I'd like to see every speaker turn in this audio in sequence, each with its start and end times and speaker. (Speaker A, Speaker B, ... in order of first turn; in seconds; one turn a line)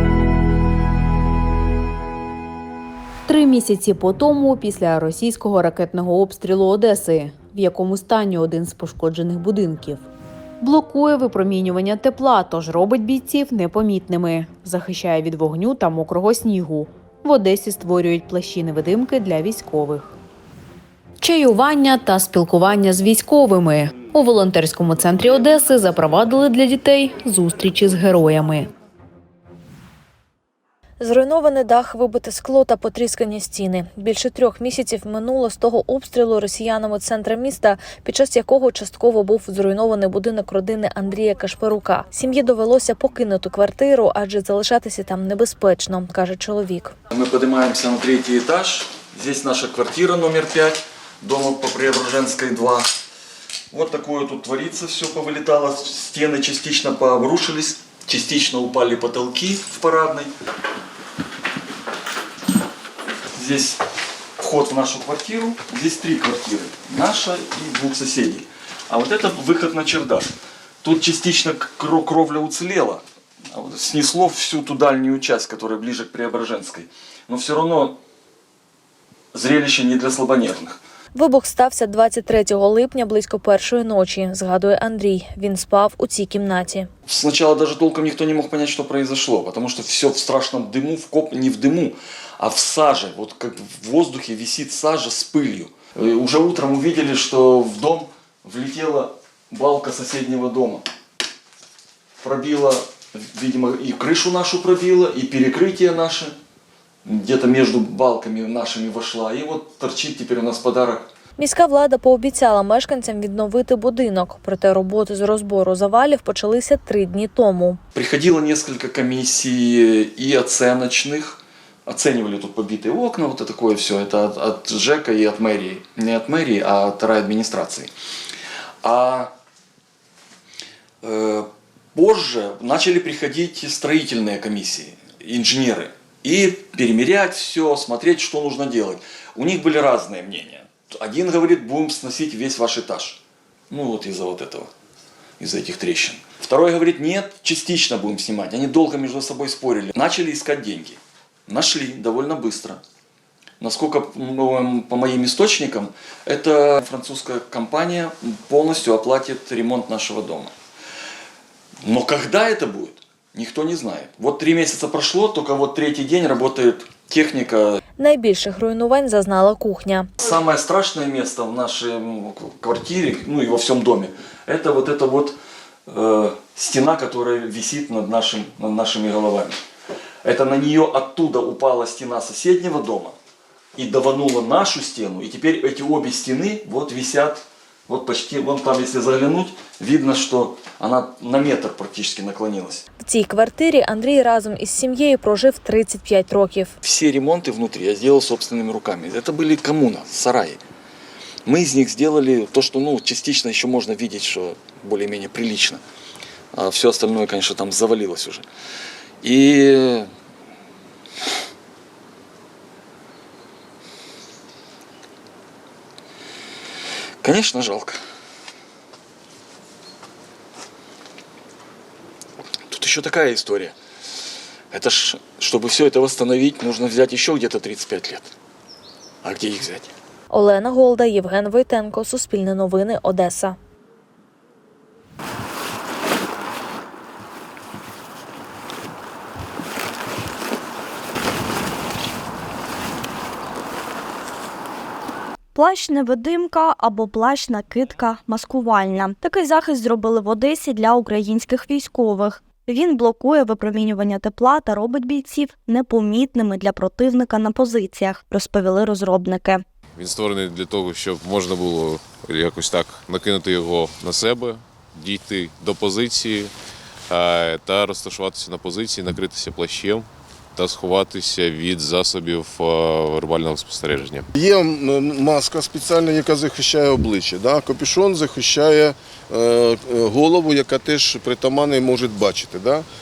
Speaker A: 3.3-10.1
Speaker A: 10.6-20.1
Speaker A: 21.2-28.7
Speaker B: 31.0-47.0
Speaker C: 47.1-52.9
Speaker C: 53.7-60.3
Speaker C: 63.3-63.8
Speaker C: 64.4-70.3
Speaker C: 70.8-78.0
Speaker C: 79.3-80.8
Speaker B: 81.2-86.9
Speaker C: 87.1-100.8
Speaker C: 102.2-106.3
Speaker C: 107.0-111.1
Speaker B: 111.4-117.8
Speaker C: 117.9-127.9
Speaker C: 128.8-129.3
Speaker C: 131.0-144.7
Speaker C: 145.4-152.8
Speaker C: 153.6-160.5
Speaker C: 161.8-167.8
Speaker B: 168.0-170.1
Speaker C: 170.2-175.4
Speaker C: 175.9-179.6
Speaker C: 180.2-183.2
Speaker C: 183.8-192.9
Speaker B: 193.0-196.8
Speaker C: 196.8-200.6
Speaker C: 201.5-205.8
Speaker C: 206.5-208.5
Speaker C: 209.2-210.1
Speaker C: 217.2-218.0
Speaker C: 222.7-223.8
Speaker C: 224.7-228.3
Speaker C: 229.2-229.9
Speaker B: 230.3-233.6
Speaker D: 245.6-259.6
Speaker E: 260.0-266.5
Speaker E: 267.1-274.3
Speaker F: 274.3-282.9